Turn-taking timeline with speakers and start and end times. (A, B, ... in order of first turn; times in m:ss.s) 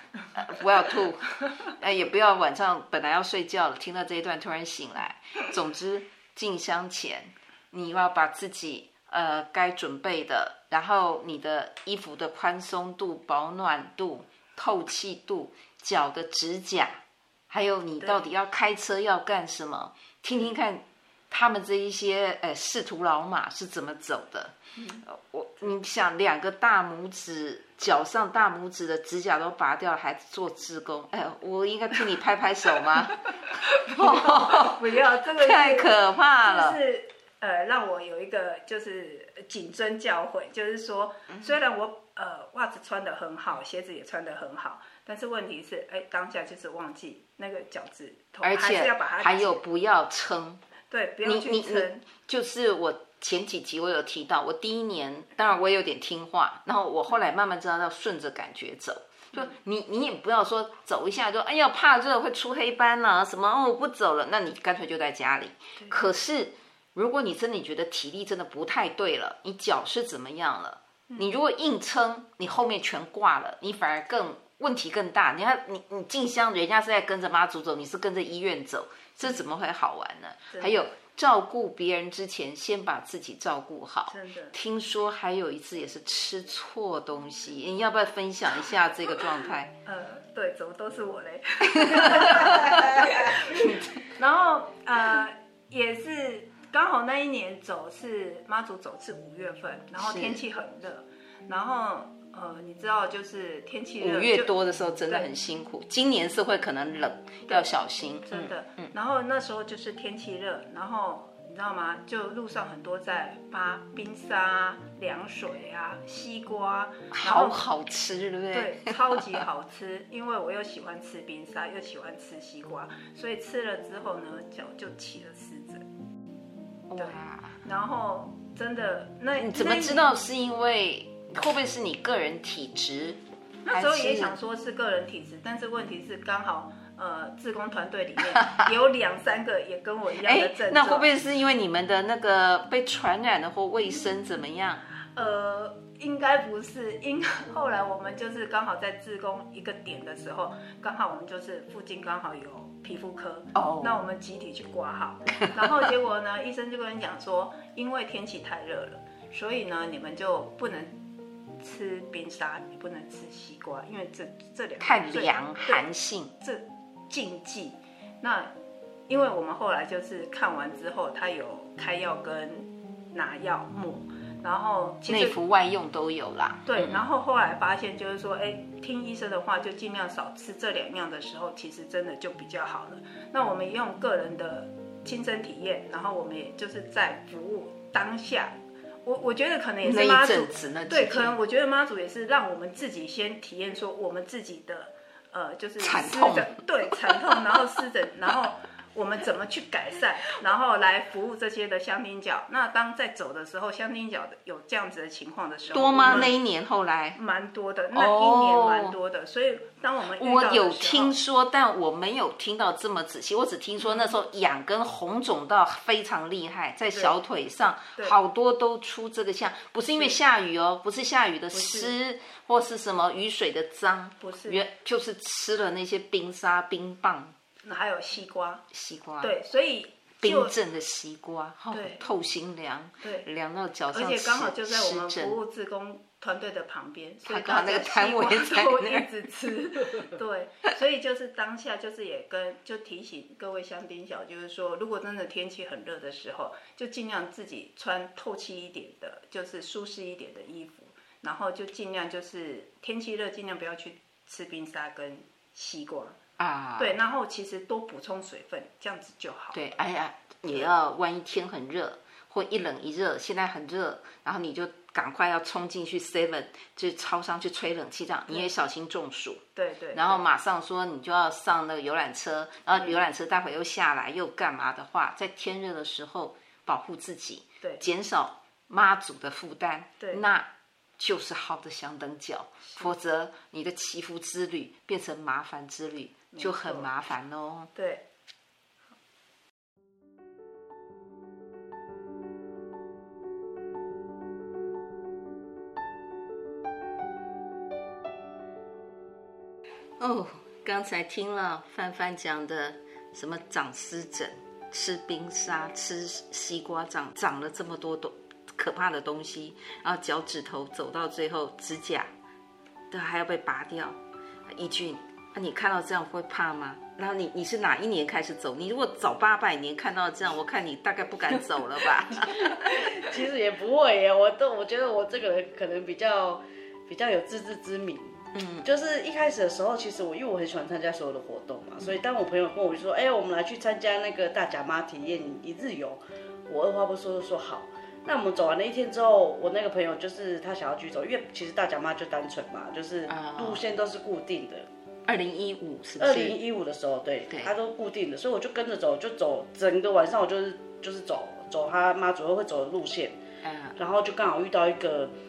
0:00.3-0:36.8 A
0:18.0-0:18.3 B
0:33.1-0:49.6 B
0:48.4-0:50.6 A
0:50.9-0:52.0 B
0:51.2-1:29.7 A
1:20.5-1:20.8 B
1:24.1-1:24.5 B
1:29.8-1:44.5 B
1:31.6-1:34.0 A
1:40.0-1:40.4 A
1:44.0-1:48.9 A
1:47.5-1:47.7 B
1:48.3-1:57.6 B
1:57.1-1:59.4 A
1:58.5-2:05.8 B
2:06.9-2:07.6 A
2:07.0-2:10.1 B
2:09.4-2:13.2 A
2:13.6-2:21.1 B
2:13.7-2:14.4 A
2:18.3-2:18.7 A
2:20.2-2:24.8 A
2:25.1-2:40.9 B
2:33.5-2:34.0 A
2:41.6-2:45.8 B
2:44.8-2:46.3 A
2:46.4-2:48.5 B
2:49.1-2:55.4 B
2:55.1-2:57.0 A
2:56.6-3:26.3 B
3:09.8-3:11.4 A
3:15.8-3:17.5 A
3:25.7-3:27.2 A
3:27.2-3:31.2 B
3:27.9-3:29.0 A
3:30.2-3:47.3 A
3:33.8-3:34.1 B
3:39.9-3:40.2 B
3:41.5-3:41.9 B
3:44.2-3:44.6 B
3:47.6-3:48.6 B
3:48.7-3:49.3 A
3:49.2-3:50.5 B
3:50.2-3:55.4 A
3:51.7-3:52.0 B
3:53.0-3:53.3 B
3:53.9-4:16.2 B
3:57.2-3:59.1 A
4:16.4-4:17.0 A
4:16.8-4:19.6 B
4:19.5-4:47.7 A
4:29.5-4:30.2 B
4:32.7-4:33.0 B
4:42.7-4:42.9 B
4:46.3-4:46.9 B
4:47.7-4:48.0 B
5:00.0-5:12.1 A
5:12.9-5:14.0 A
5:14.5-5:23.0 A
5:22.3-5:44.7 C
5:28.3-5:28.7 A
5:43.1-5:43.6 A
5:45.1-5:46.4 A
5:46.0-5:53.2 C
5:53.4-5:53.8 A
5:53.8-5:55.1 C